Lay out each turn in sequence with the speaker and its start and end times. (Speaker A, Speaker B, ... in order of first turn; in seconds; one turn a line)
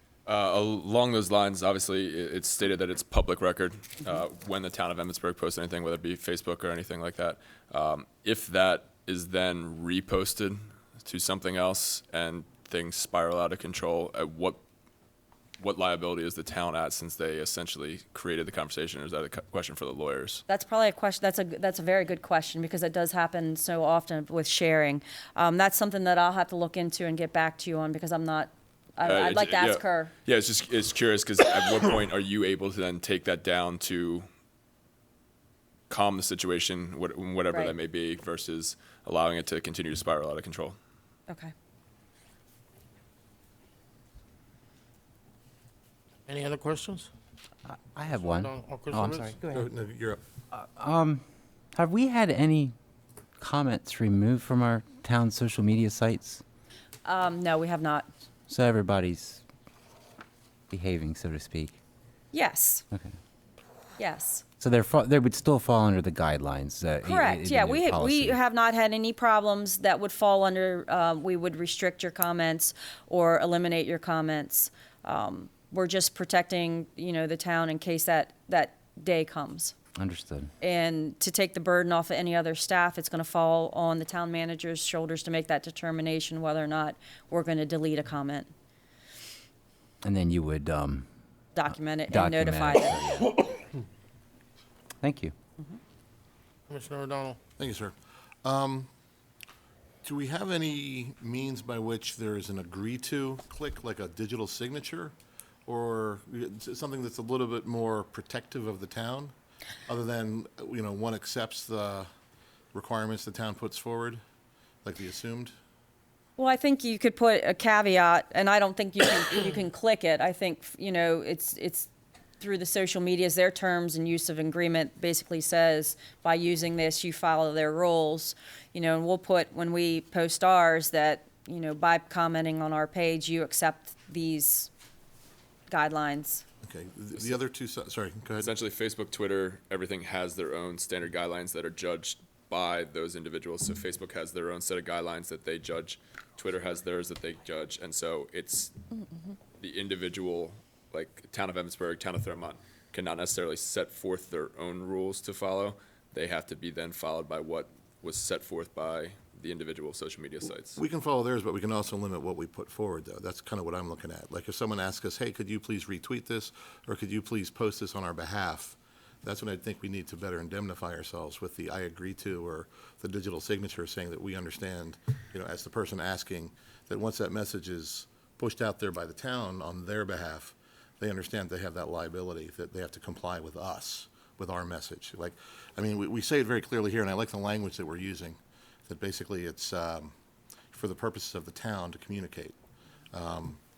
Speaker A: 0.2-14.6
Speaker A: 15.6-20.4
Speaker B: 20.5-30.1
Speaker A: 29.0-34.2
Speaker A: 35.9-40.8
Speaker C: 46.3-47.1
Speaker D: 47.6-49.6
Speaker C: 48.6-49.3
Speaker E: 49.4-50.2
Speaker D: 50.5-51.2
Speaker D: 51.7-52.7
Speaker D: 53.4-56.4
Speaker B: 57.0-58.1
Speaker D: 58.5-59.4
Speaker D: 60.7-61.8
Speaker B: 62.3-62.8
Speaker B: 64.0-64.4
Speaker D: 64.6-68.4
Speaker B: 67.0-79.7
Speaker D: 80.0-80.5
Speaker B: 80.6-88.5
Speaker D: 90.0-91.0
Speaker B: 91.5-93.3
Speaker D: 91.7-93.3
Speaker D: 95.0-95.3
Speaker C: 96.7-97.4
Speaker E: 97.6-98.9
Speaker E: 100.0-105.1
Speaker E: 105.7-109.3
Speaker E: 109.9-112.1
Speaker E: 112.7-114.2
Speaker E: 114.8-115.5
Speaker B: 116.4-121.9
Speaker B: 122.4-134.7
Speaker B: 135.7-136.4
Speaker E: 136.6-138.5
Speaker A: 138.4-148.7
Speaker A: 149.6-160.8
Speaker E: 160.8-190.1
Speaker E: 190.7-192.5
Speaker E: 193.1-193.6